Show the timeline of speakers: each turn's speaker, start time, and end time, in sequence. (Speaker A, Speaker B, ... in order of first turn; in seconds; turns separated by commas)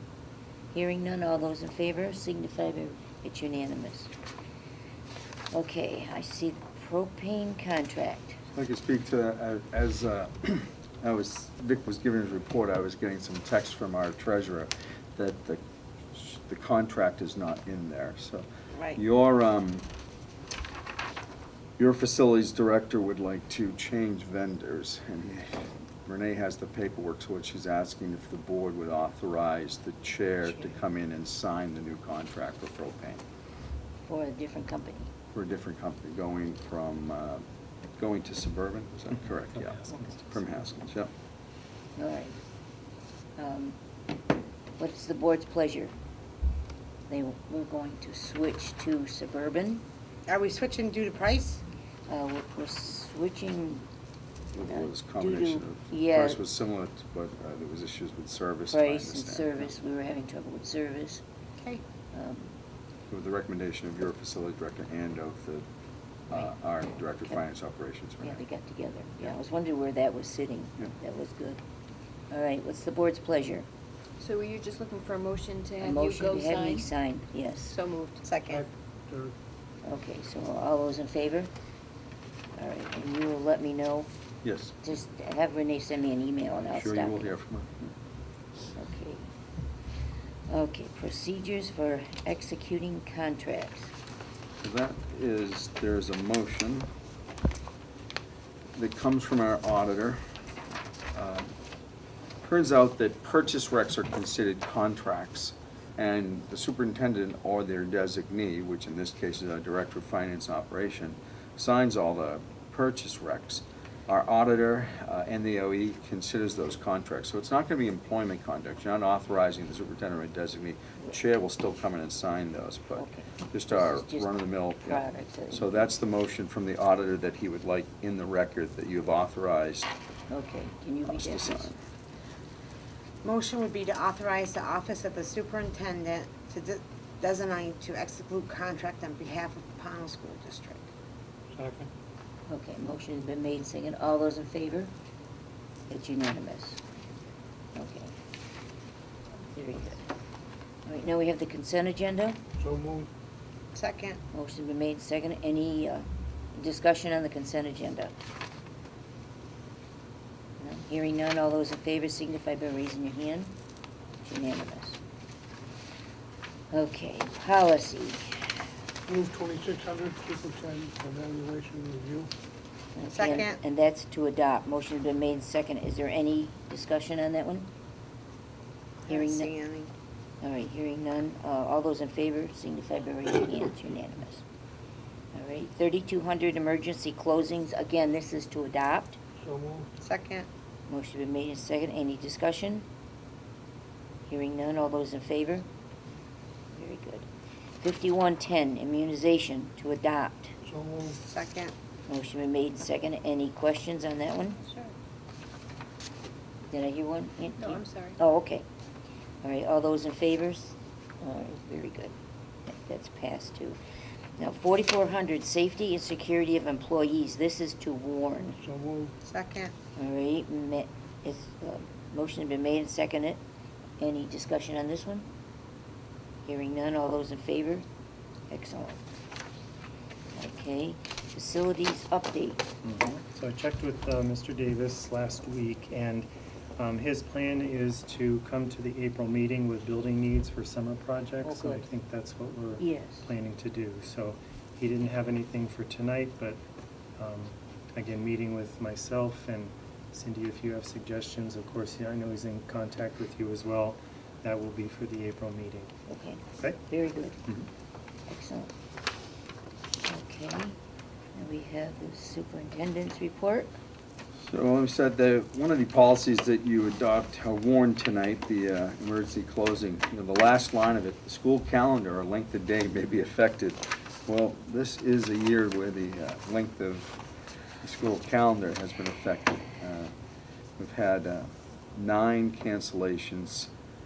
Speaker A: 0.7-4.1, Speaker A: 5.5-8.4, Speaker B: 8.5-15.6, Speaker B: 16.1-19.9, Speaker C: 18.7-19.0, Speaker B: 21.8-33.2, Speaker A: 34.0-35.1, Speaker B: 35.3-37.4, Speaker B: 38.0-41.1, Speaker D: 39.5-40.4, Speaker A: 42.0-42.4, Speaker A: 43.4-43.8, Speaker A: 44.8-45.9, Speaker A: 47.1-49.8, Speaker C: 50.3-51.6, Speaker A: 52.1-53.9, Speaker B: 54.5-59.7, Speaker A: 54.6-56.4, Speaker A: 58.7-61.2, Speaker A: 62.1-62.5, Speaker B: 63.1-65.6, Speaker B: 66.3-68.4, Speaker A: 68.2-71.6, Speaker A: 72.3-73.7, Speaker E: 74.2-76.9, Speaker A: 75.8-77.8, Speaker E: 77.6-78.2, Speaker C: 78.2-78.6, Speaker F: 78.5-79.3, Speaker A: 79.8-81.5, Speaker A: 82.5-84.1, Speaker B: 84.4-84.8, Speaker A: 84.8-87.4, Speaker B: 86.6-87.9, Speaker A: 88.7-89.3, Speaker A: 90.5-93.9, Speaker B: 94.6-96.9, Speaker B: 98.8-100.2, Speaker B: 101.1-101.5, Speaker B: 102.4-129.9, Speaker A: 123.0-125.9, Speaker A: 130.3-131.7, Speaker B: 131.1-131.7, Speaker C: 133.2-140.9, Speaker F: 141.5-141.9, Speaker A: 142.5-144.9, Speaker A: 145.9-146.8, Speaker A: 147.7-148.1, Speaker A: 149.5-150.1, Speaker A: 150.8-152.4, Speaker F: 152.6-153.1, Speaker C: 153.7-154.2, Speaker A: 154.3-158.1, Speaker A: 160.6-163.5, Speaker A: 164.2-165.0, Speaker A: 166.7-168.4, Speaker F: 169.1-172.3, Speaker A: 172.9-177.7, Speaker C: 173.1-173.6, Speaker C: 179.1-179.9, Speaker A: 179.1-179.5, Speaker A: 180.4-184.4, Speaker A: 185.3-189.2, Speaker F: 189.4-189.9, Speaker C: 190.0-190.5, Speaker A: 190.9-192.8, Speaker A: 194.3-195.7, Speaker A: 196.7-197.3, Speaker A: 197.8-200.5, Speaker F: 200.6-201.2, Speaker C: 201.2-201.7, Speaker A: 202.1-204.7, Speaker A: 206.7-208.6, Speaker A: 209.4-212.1, Speaker A: 212.7-213.8, Speaker A: 214.4-218.6, Speaker F: 218.6-219.1, Speaker C: 219.2-219.7, Speaker A: 219.9-223.4, Speaker A: 224.0-225.3, Speaker A: 226.4-227.8, Speaker A: 228.5-229.0, Speaker A: 230.3-233.2, Speaker D: 232.8-246.6, Speaker A: 241.4-241.9, Speaker A: 242.8-243.3, Speaker D: 247.2-255.9, Speaker A: 256.1-257.4, Speaker A: 258.3-258.7, Speaker A: 260.1-260.8, Speaker A: 261.3-263.8, Speaker B: 264.4-277.1, Speaker B: 277.8-280.1, Speaker B: 280.8-283.7